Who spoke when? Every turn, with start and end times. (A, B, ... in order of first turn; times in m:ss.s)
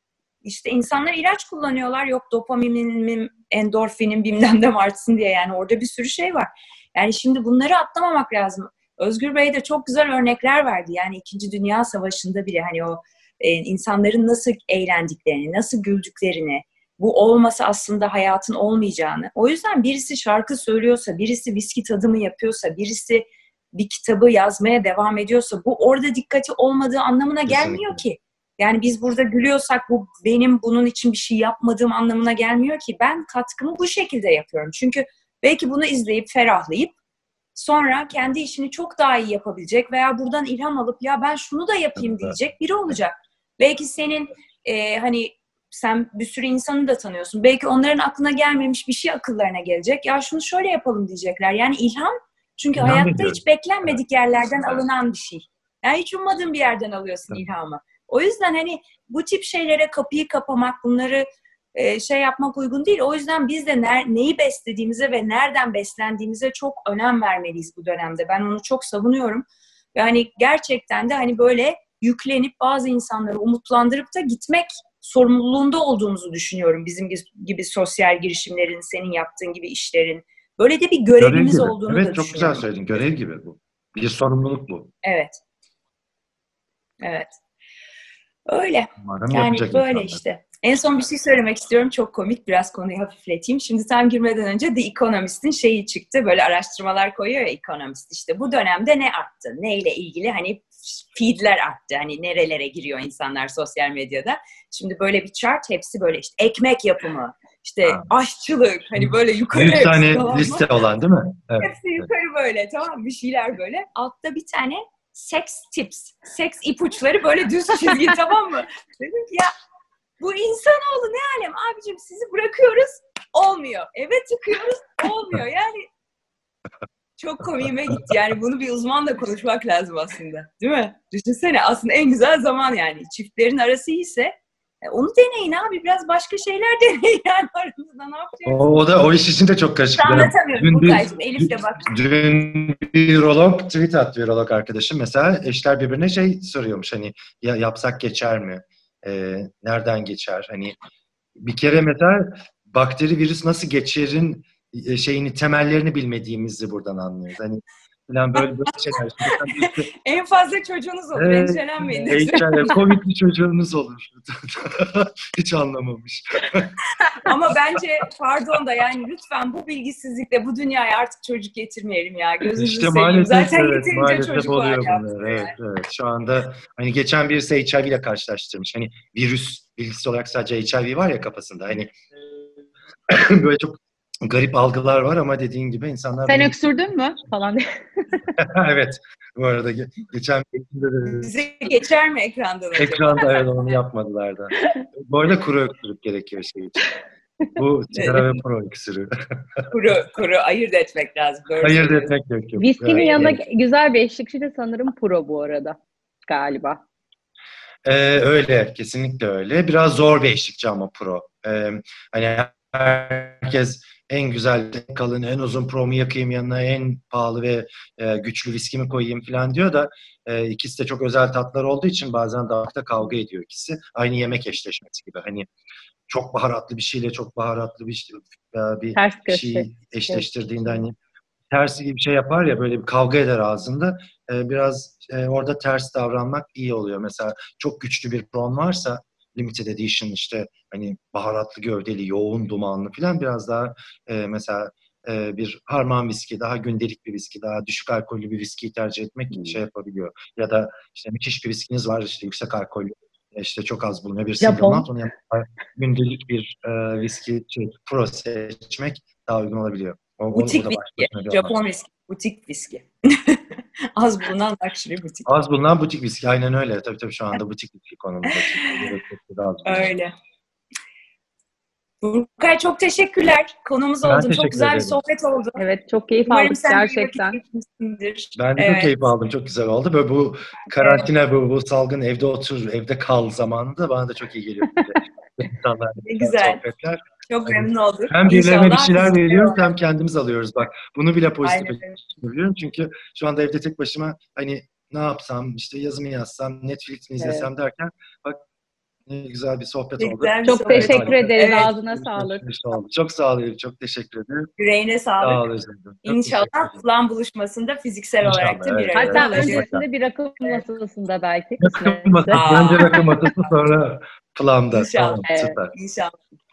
0:00.4-0:36.9 A
0:27.5-0:28.0 B
0:37.6-1:22.7 A
0:42.0-0:42.4 B
0:52.8-0:53.9 B
1:21.2-1:24.9 B
1:25.0-1:25.4 A
1:27.0-1:27.3 A
1:28.5-1:50.7 A
1:29.0-1:30.2 B
1:49.0-1:52.1 B
1:51.6-1:59.5 A
2:00.2-2:05.9 A
2:07.2-2:18.8 A
2:18.4-2:30.8 B
2:20.0-2:21.9 A
2:31.4-2:39.9 B
2:38.4-2:42.8 A
2:41.2-2:46.8 B
2:47.2-2:55.5 A
2:52.6-3:01.9 B
3:03.1-3:06.6 B
3:06.3-3:08.3 C
3:08.4-3:11.3 B
3:11.1-3:13.4 A
3:12.8-3:16.9 B
3:17.5-3:19.7 B
3:17.9-3:18.2 A
3:19.7-3:22.1 A
3:21.6-3:23.4 B
3:22.6-3:26.8 C
3:23.0-3:23.3 A
3:27.8-3:45.5 B
3:46.1-3:51.0 B
3:48.9-3:50.7 C
3:51.5-4:21.6 B
4:09.3-4:09.6 C
4:14.4-4:14.9 C
4:20.3-4:23.4 A
4:24.0-4:25.3 A
4:25.2-4:29.9 B
4:28.2-4:28.9 A
4:29.6-4:30.1 A
4:32.0-4:35.6 A
4:34.0-4:35.0 B
4:35.6-4:37.4 C
4:36.3-4:39.0 A
4:38.4-4:58.4 B
4:40.7-4:41.0 A
4:46.0-4:46.6 A
4:47.3-4:49.7 A
4:51.4-4:52.0 A
4:57.2-4:57.5 C
4:59.1-5:04.5 B
5:00.0-5:01.7 A
5:00.4-5:02.4 C
5:04.6-5:05.5 A
5:05.2-5:06.8 B
5:06.0-5:09.7 A
5:08.2-5:09.8 B
5:08.9-5:13.3 C
5:11.6-5:15.7 B
5:12.3-5:13.0 A
5:14.7-5:16.2 A
5:15.2-5:15.6 C